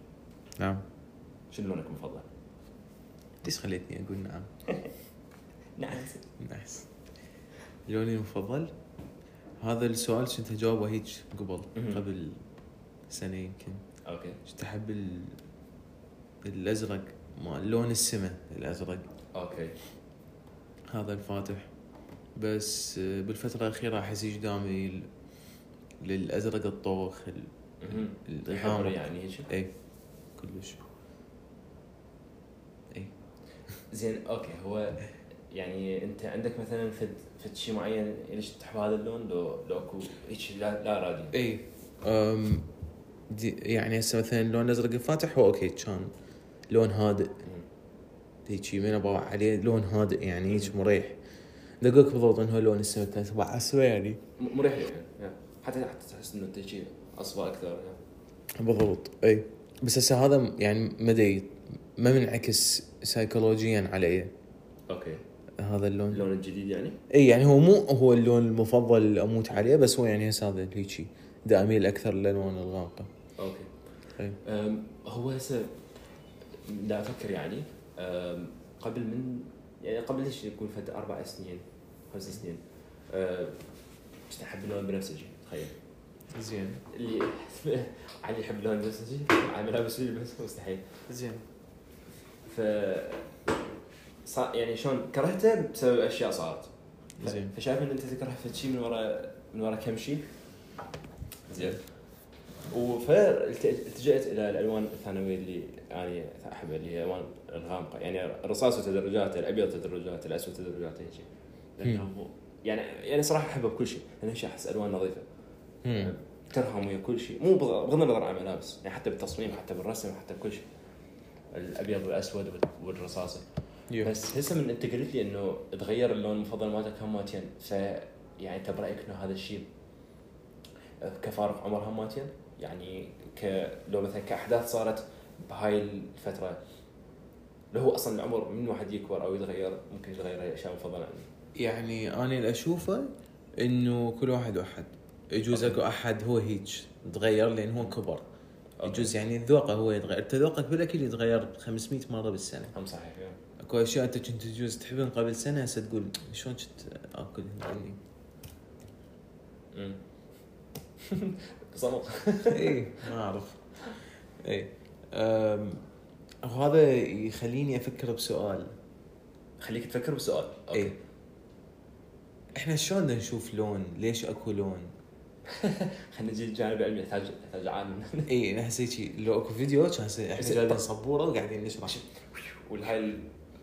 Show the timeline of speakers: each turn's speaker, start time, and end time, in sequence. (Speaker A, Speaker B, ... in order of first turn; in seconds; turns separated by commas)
Speaker A: 0.6-0.8, Speaker B: 1.5-2.2, Speaker A: 3.4-4.5, Speaker B: 5.8-6.2, Speaker A: 6.4-6.9, Speaker A: 7.9-8.7, Speaker A: 9.6-12.4, Speaker B: 11.7-12.0, Speaker A: 13.1-13.8, Speaker B: 14.1-14.4, Speaker A: 14.4-15.4, Speaker A: 16.4-19.0, Speaker B: 19.3-19.8, Speaker A: 20.9-21.7, Speaker A: 22.4-25.1, Speaker A: 26.0-29.7, Speaker B: 27.8-29.5, Speaker A: 30.4-30.8, Speaker B: 33.9-41.4, Speaker A: 41.3-42.7, Speaker A: 43.3-46.1, Speaker A: 46.7-47.4, Speaker A: 48.5-51.1, Speaker A: 51.8-54.2, Speaker B: 54.4-58.0, Speaker A: 58.6-64.3, Speaker B: 64.9-65.2, Speaker A: 65.6-66.2, Speaker B: 66.1-67.0, Speaker A: 67.1-73.1, Speaker B: 73.4-73.7, Speaker B: 74.4-75.7, Speaker B: 76.6-83.6, Speaker B: 84.3-85.7, Speaker A: 86.3-86.8, Speaker B: 86.9-90.8, Speaker A: 91.1-91.4, Speaker B: 92.5-93.3, Speaker B: 94.2-96.7, Speaker A: 97.2-97.5, Speaker B: 97.2-100.3, Speaker B: 101.5-101.8, Speaker B: 102.7-115.2, Speaker A: 115.8-116.1, Speaker B: 116.0-120.7, Speaker B: 121.5-123.4, Speaker B: 124.0-129.7, Speaker B: 131.0-136.6, Speaker B: 137.7-141.3, Speaker A: 141.6-148.2, Speaker B: 145.5-145.8, Speaker B: 148.8-149.1, Speaker A: 148.8-152.7, Speaker B: 152.7-153.4, Speaker A: 153.6-158.0, Speaker B: 159.7-160.0, Speaker B: 161.0-162.8, Speaker A: 162.5-163.6, Speaker A: 164.4-165.8, Speaker A: 166.4-168.7, Speaker B: 169.6-171.0, Speaker A: 172.5-174.9, Speaker B: 175.5-178.3, Speaker A: 178.3-182.0, Speaker B: 180.4-180.8, Speaker B: 181.8-183.2